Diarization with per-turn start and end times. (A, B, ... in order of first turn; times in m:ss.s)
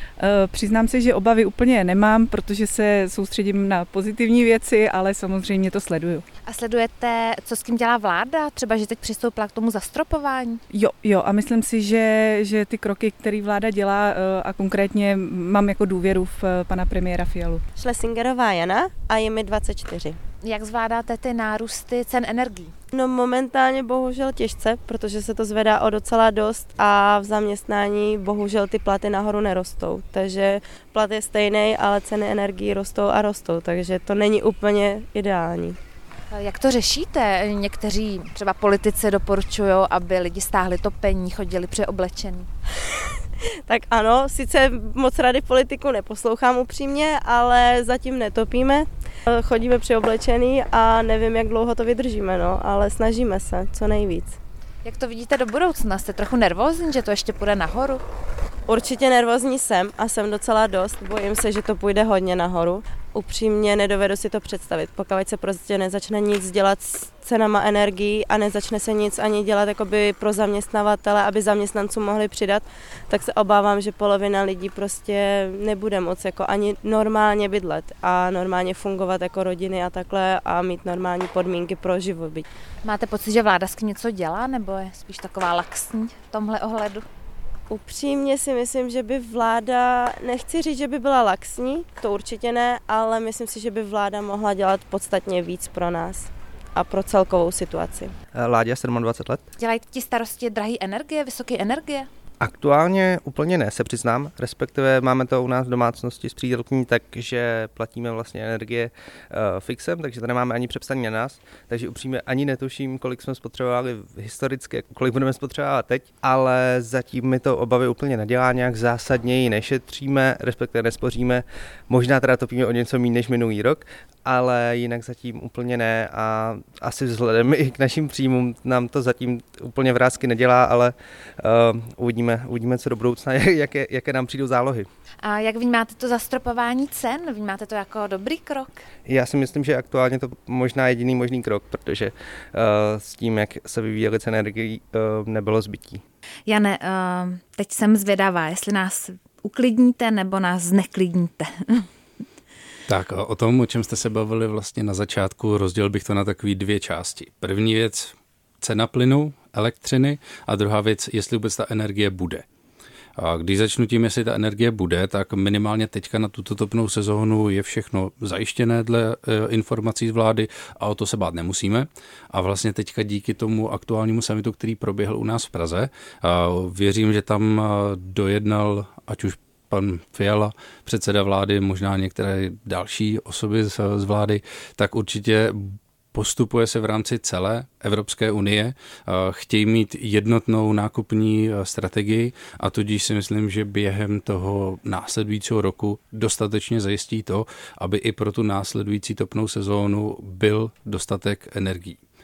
0:00.2-0:06.2 A
0:06.5-0:10.6 B
0:10.7-0:17.6 A
0:17.8-0:20.2 C
0:20.4-0:22.7 B
0:22.9-0:35.8 C
0:36.3-0:42.5 B
0:43.7-0:54.4 C
0:54.8-0:58.0 B
0:58.7-1:22.4 C
1:22.8-1:27.1 B
1:27.7-1:38.1 C
1:38.3-1:39.5 D
1:39.6-1:42.1 B
1:42.4-2:14.9 D
2:15.2-2:18.8 B
2:19.1-2:26.0 D
2:26.5-2:31.9 B
2:32.9-2:42.4 E
2:43.2-3:22.0 E